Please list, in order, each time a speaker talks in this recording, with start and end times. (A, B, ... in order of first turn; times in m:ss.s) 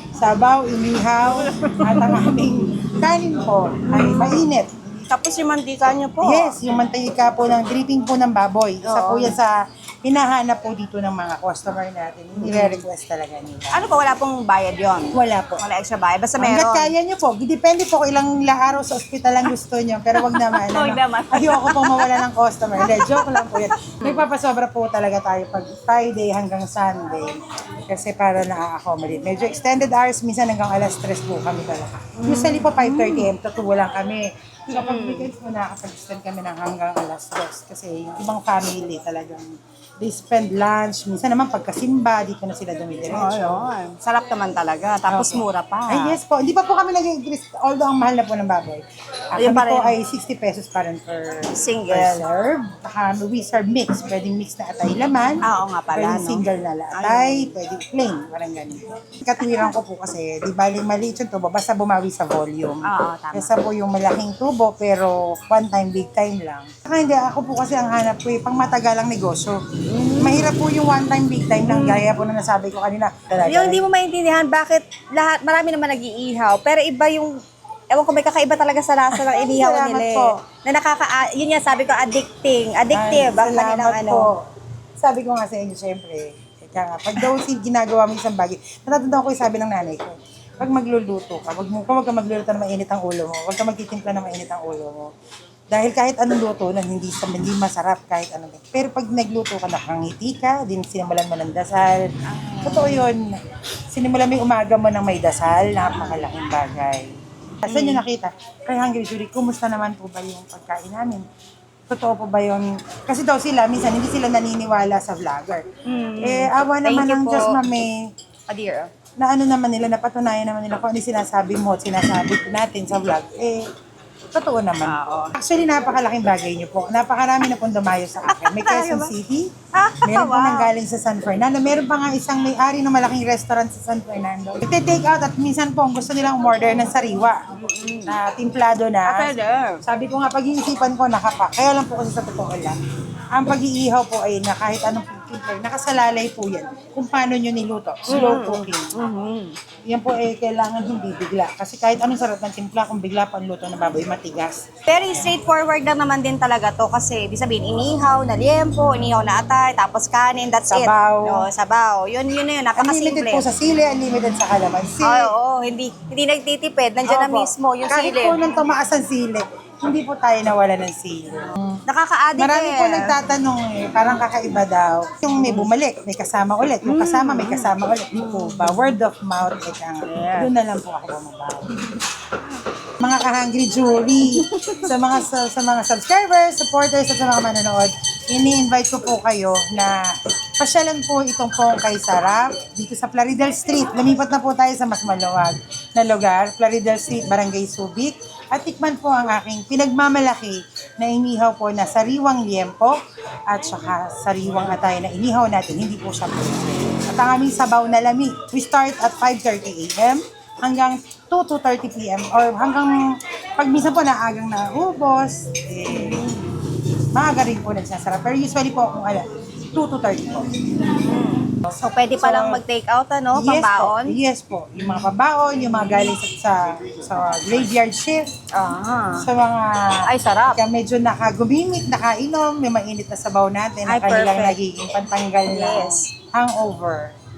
0:00.2-0:05.1 A
0:01.3-0:02.3 B
0:03.9-0:04.6 B
0:05.1-0:06.6 B
0:06.2-0:13.8 A
0:08.8-0:09.4 B
0:12.4-0:12.9 B
0:13.7-0:16.9 B
0:15.1-0:15.6 A
0:16.4-0:43.6 A
0:20.1-0:22.2 B
0:22.8-0:24.3 B
0:32.2-0:33.3 B
0:34.7-0:35.3 B
0:43.1-0:46.2 B
0:45.1-0:48.8 A
0:49.3-1:09.6 A
0:49.4-0:50.0 B
0:51.5-0:52.3 B
0:55.4-0:57.6 B
0:59.4-0:59.8 B
1:02.8-1:03.5 B
1:09.9-1:10.5 B
1:10.2-1:13.8 A
1:11.6-1:12.1 B
1:13.4-1:17.3 B
1:17.9-1:24.3 B
1:19.1-1:20.4 A
1:22.9-1:24.4 A
1:25.0-1:35.1 A
1:35.7-1:42.1 A
1:42.2-1:43.1 B
1:42.6-1:43.4 A
1:43.9-1:47.1 A
1:47.6-1:48.0 B
1:47.6-1:51.3 A
1:51.9-1:55.7 A
1:55.8-1:57.6 B
1:56.2-1:58.1 A
1:58.5-1:58.9 B
1:59.2-2:03.6 A
2:04.3-2:17.4 A
2:04.8-2:05.4 B
2:08.3-2:09.1 B
2:09.7-2:10.7 B
2:17.5-2:18.2 B
2:18.1-2:19.3 A
2:19.0-2:19.8 B
2:19.8-2:22.8 A
2:23.3-2:28.9 A
2:28.1-2:29.6 B
2:29.9-2:34.6 A
2:34.9-2:43.5 B
2:40.7-2:41.5 A
2:42.8-2:45.3 A
2:45.0-2:48.5 B
2:47.0-2:51.8 A
2:51.9-2:53.2 B
2:52.4-3:01.7 A
2:55.3-2:55.7 B
2:56.8-2:59.0 B
3:00.0-3:00.5 B
3:03.0-3:10.0 A
3:04.2-3:05.0 B
3:10.6-3:23.0 A
3:23.5-3:36.2 A
3:35.9-3:36.5 B
3:37.1-3:40.6 A
3:40.8-3:44.2 B
3:41.7-3:42.6 A
3:43.3-3:48.3 A
3:44.8-3:46.2 B
3:48.5-3:49.3 B
3:49.2-3:57.1 A
3:50.1-3:50.6 B
3:53.9-3:54.6 B
3:55.5-3:56.1 B